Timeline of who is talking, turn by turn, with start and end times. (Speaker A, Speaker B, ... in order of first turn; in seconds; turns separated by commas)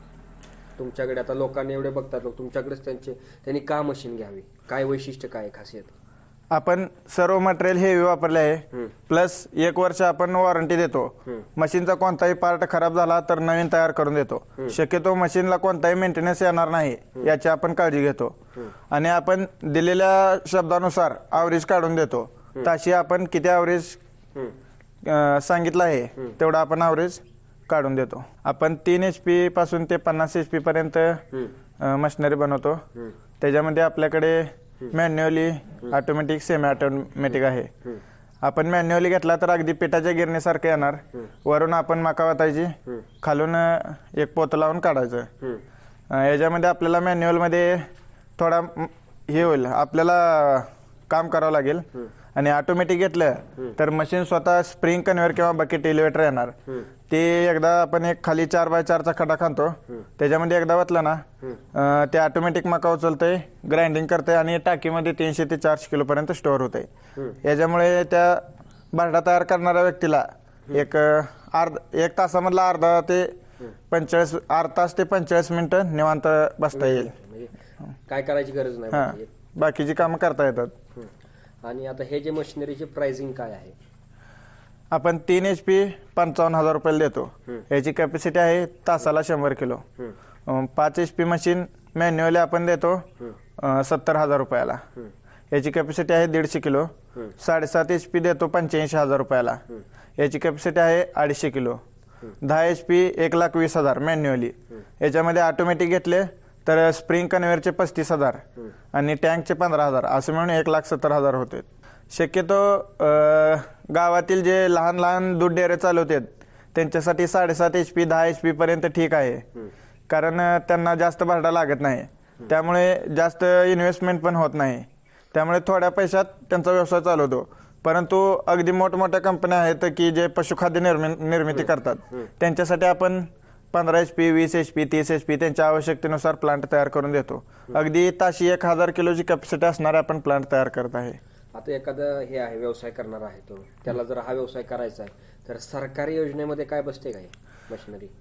Speaker A: 0.8-5.9, Speaker B: 6.5-18.3, Speaker B: 18.9-24.0, Speaker B: 25.0-31.2, Speaker B: 31.8-32.8, Speaker B: 33.4-37.7, Speaker B: 38.4-45.3, Speaker B: 46.1-56.5, Speaker B: 57.1-61.2, Speaker B: 61.7-66.9, Speaker B: 67.4-73.3, Speaker B: 73.9-77.1, Speaker A: 76.7-77.5, Speaker A: 78.1-79.3, Speaker B: 78.9-80.7, Speaker A: 81.6-83.7, Speaker B: 84.9-89.8, Speaker B: 90.5-93.1, Speaker B: 93.6-94.8, Speaker B: 95.5-99.6, Speaker B: 100.2-101.8, Speaker B: 102.4-108.4, Speaker B: 108.9-119.4, Speaker B: 120.1-141.2, Speaker A: 141.5-148.1